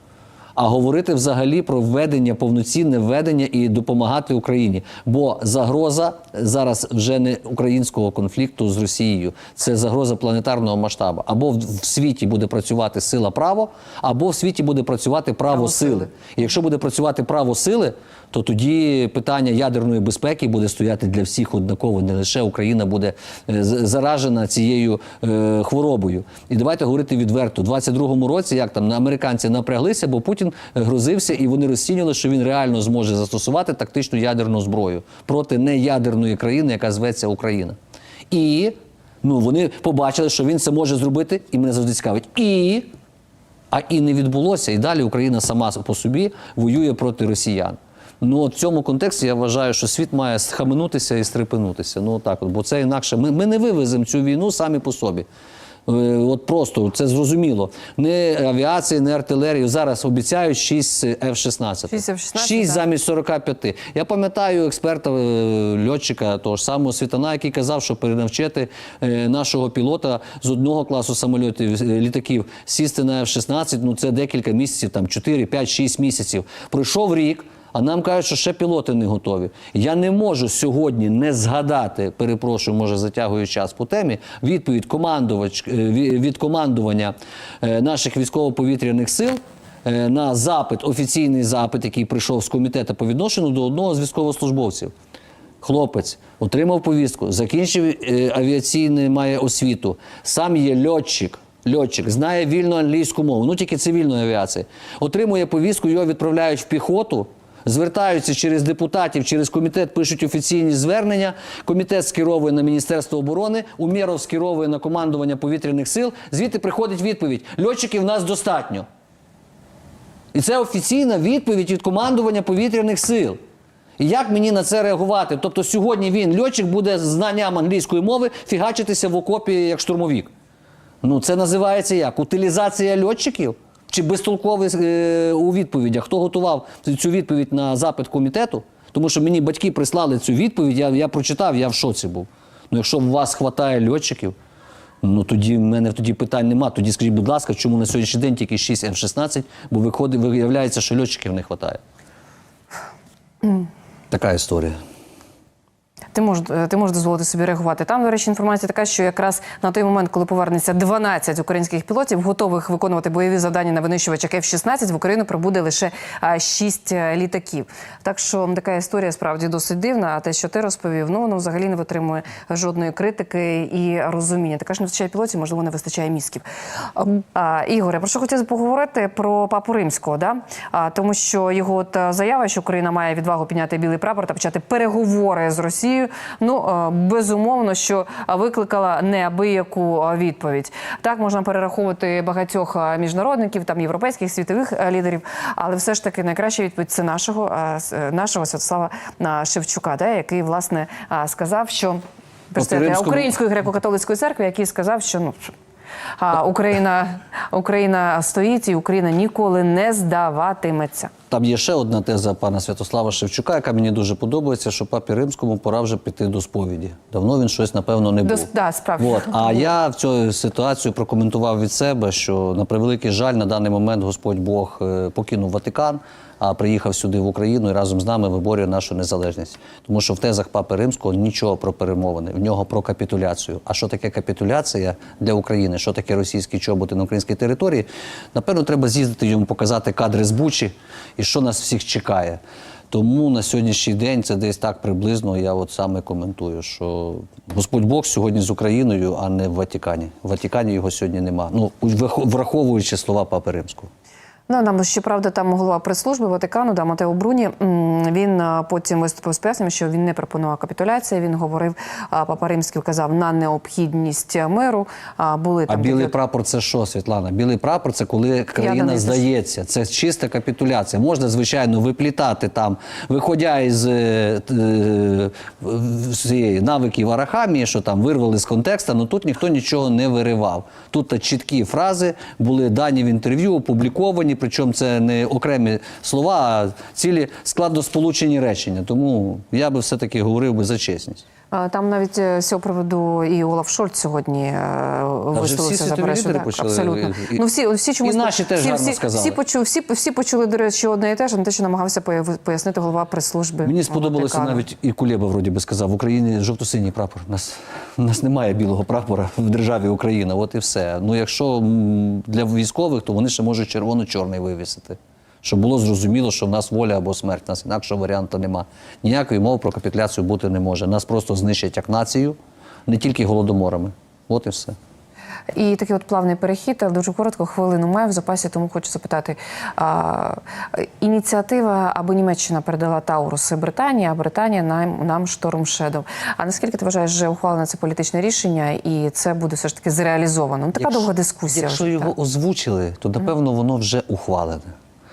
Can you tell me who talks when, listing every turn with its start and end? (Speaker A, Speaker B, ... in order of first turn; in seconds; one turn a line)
Speaker A: 0.6-37.8
Speaker B: 15.8-16.1
Speaker A: 38.3-42.9
Speaker A: 43.7-55.3
Speaker A: 55.9-94.9
Speaker B: 61.9-62.8
Speaker A: 95.6-118.9
Speaker A: 120.3-123.4
Speaker A: 124.0-130.3
Speaker A: 131.0-144.3
Speaker A: 145.0-151.8
Speaker A: 154.1-154.8
Speaker B: 156.1-176.4
Speaker B: 176.9-202.0
Speaker B: 202.5-205.5
Speaker A: 202.6-203.3
Speaker B: 206.2-211.1
Speaker A: 211.3-242.4
Speaker B: 218.2-219.7
Speaker A: 242.9-253.9
Speaker B: 254.5-266.1
Speaker A: 265.7-291.2
Speaker B: 268.6-269.2
Speaker B: 291.5-304.6
Speaker A: 295.3-297.4
Speaker A: 298.0-299.4
Speaker A: 303.6-322.4
Speaker A: 322.9-324.8
Speaker B: 325.6-342.1
Speaker A: 340.8-344.7